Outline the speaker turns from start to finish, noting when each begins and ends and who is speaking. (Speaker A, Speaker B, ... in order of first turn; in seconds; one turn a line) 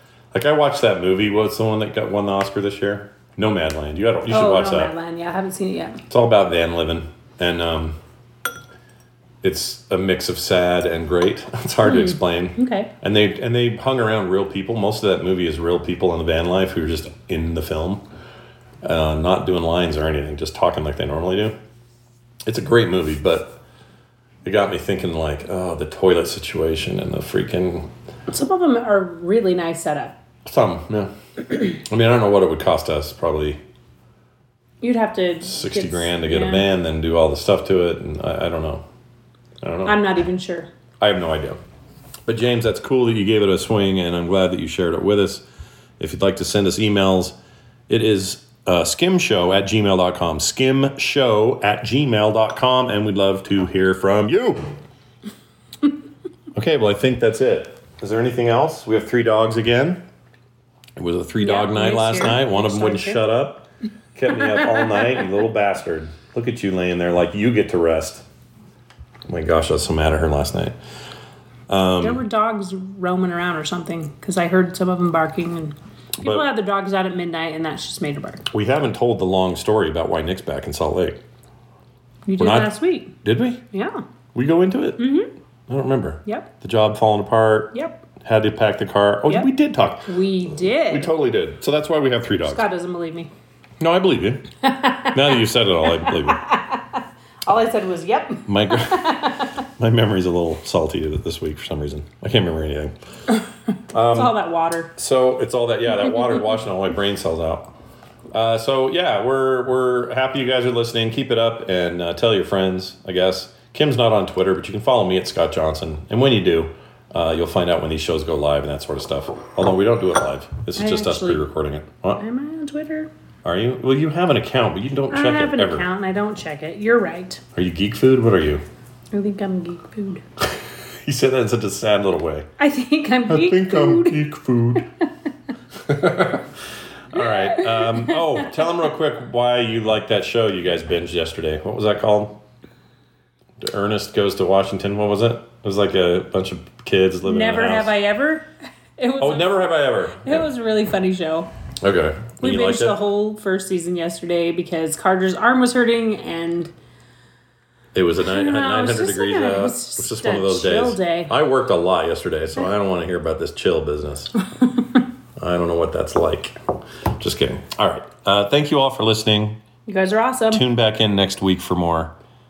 Speaker A: 0.3-4.9
Speaker B: 4.3-6.0
Speaker A: 6.1-8.0
Speaker A: 9.4-18.0
Speaker B: 11.8-12.9
Speaker A: 18.8-21.5
Speaker A: 22.4-23.6
Speaker A: 24.4-27.9
Speaker B: 28.3-30.1
Speaker A: 30.4-33.6
Speaker B: 34.8-36.6
Speaker A: 35.4-38.8
Speaker A: 39.6-40.0
Speaker B: 39.8-40.7
Speaker A: 41.0-41.6
Speaker A: 42.2-45.4
Speaker A: 46.0-47.4
Speaker A: 47.9-54.6
Speaker A: 56.5-60.0
Speaker A: 61.0-68.2
Speaker B: 61.4-63.2
Speaker A: 69.3-70.8
Speaker A: 71.7-72.2
Speaker B: 72.0-78.5
Speaker A: 78.5-81.2
Speaker B: 82.2-83.1
Speaker A: 82.4-83.6
Speaker B: 83.7-84.0
Speaker A: 84.3-85.0
Speaker B: 85.0-85.3
Speaker A: 85.7-90.1
Speaker B: 87.7-88.0
Speaker B: 90.0-91.1
Speaker A: 90.6-92.6
Speaker B: 92.4-93.3
Speaker A: 93.8-94.5
Speaker B: 94.7-95.1
Speaker A: 95.0-96.4
Speaker B: 95.9-99.5
Speaker A: 98.5-102.9
Speaker A: 103.9-104.4
Speaker B: 104.1-104.9
Speaker A: 104.9-107.7
Speaker A: 108.3-122.2
Speaker B: 120.8-121.5
Speaker B: 122.2-123.1
Speaker A: 123.4-125.9
Speaker B: 125.1-127.4
Speaker A: 127.5-128.6
Speaker B: 129.1-130.2
Speaker A: 130.4-132.5
Speaker B: 132.6-134.3
Speaker A: 133.3-134.9
Speaker A: 135.8-136.5
Speaker A: 137.1-142.4
Speaker B: 137.2-138.3
Speaker A: 143.6-147.9
Speaker B: 147.2-151.5
Speaker A: 149.2-150.5
Speaker A: 151.8-153.0
Speaker B: 152.4-156.7
Speaker A: 157.9-164.3
Speaker B: 158.2-161.3
Speaker A: 165.4-166.6
Speaker A: 167.2-169.6
Speaker B: 169.9-170.6
Speaker A: 170.5-172.1